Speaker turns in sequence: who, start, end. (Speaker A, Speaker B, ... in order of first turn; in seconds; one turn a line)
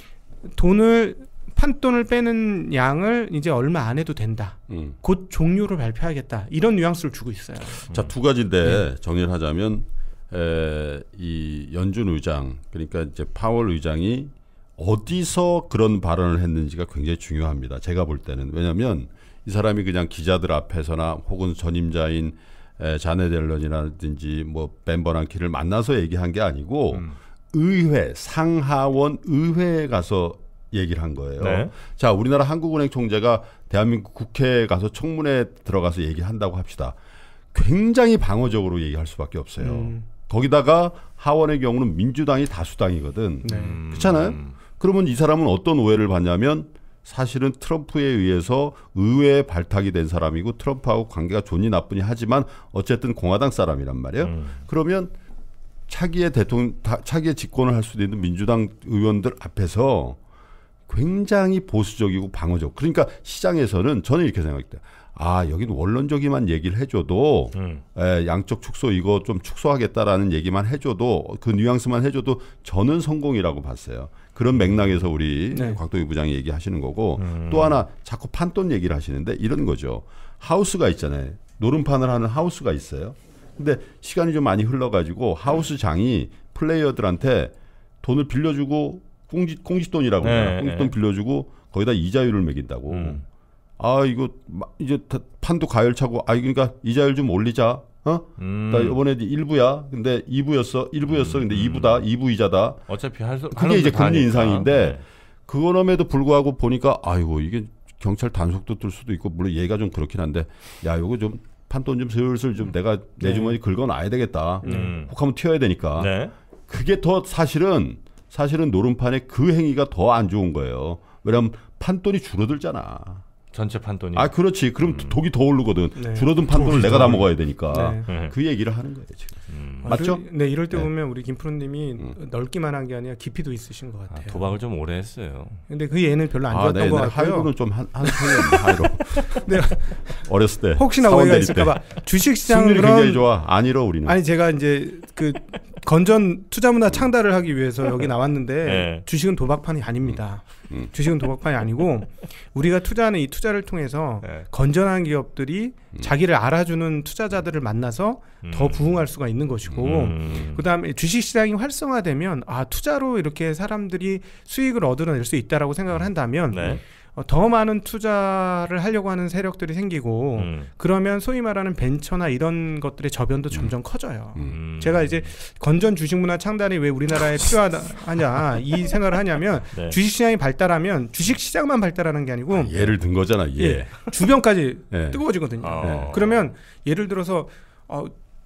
Speaker A: 0.5-7.8
Speaker B: 4.7-5.0
Speaker B: 7.9-37.0
Speaker C: 31.4-31.7
Speaker B: 37.5-55.1
Speaker A: 39.6-40.1
Speaker A: 43.4-43.8
Speaker C: 43.5-44.6
Speaker C: 54.2-54.6
Speaker B: 55.9-60.2
Speaker B: 60.9-93.2
Speaker C: 67.5-67.8
Speaker A: 75.5-75.8
Speaker C: 77.2-77.8
Speaker C: 90.2-90.9
Speaker C: 92.9-93.2
Speaker B: 93.8-102.8
Speaker C: 98.4-99.0
Speaker C: 101.1-102.0
Speaker C: 102.9-105.0
Speaker B: 103.5-116.2
Speaker A: 113.2-113.6
Speaker A: 114.6-115.0
Speaker C: 114.7-115.1
Speaker C: 116.0-116.3
Speaker B: 116.7-123.2
Speaker C: 123.5-125.2
Speaker B: 124.2-130.9
Speaker A: 126.0-126.3
Speaker C: 126.5-127.3
Speaker A: 127.7-128.1
Speaker C: 128.1-128.3
Speaker C: 129.5-130.0
Speaker A: 129.8-134.5
Speaker C: 134.1-135.6
Speaker A: 135.7-137.5
Speaker B: 136.5-141.8
Speaker A: 138.0-138.6
Speaker A: 139.2-140.2
Speaker A: 140.8-143.2
Speaker B: 142.4-144.2
Speaker A: 144.1-182.9
Speaker C: 148.6-149.0
Speaker C: 158.4-159.0
Speaker B: 159.7-160.4
Speaker C: 159.8-160.6
Speaker C: 166.5-166.8
Speaker C: 170.4-170.7
Speaker C: 174.5-175.3
Speaker B: 182.6-184.1
Speaker A: 183.6-188.1
Speaker B: 184.9-185.2
Speaker C: 185.6-186.5
Speaker B: 185.8-186.1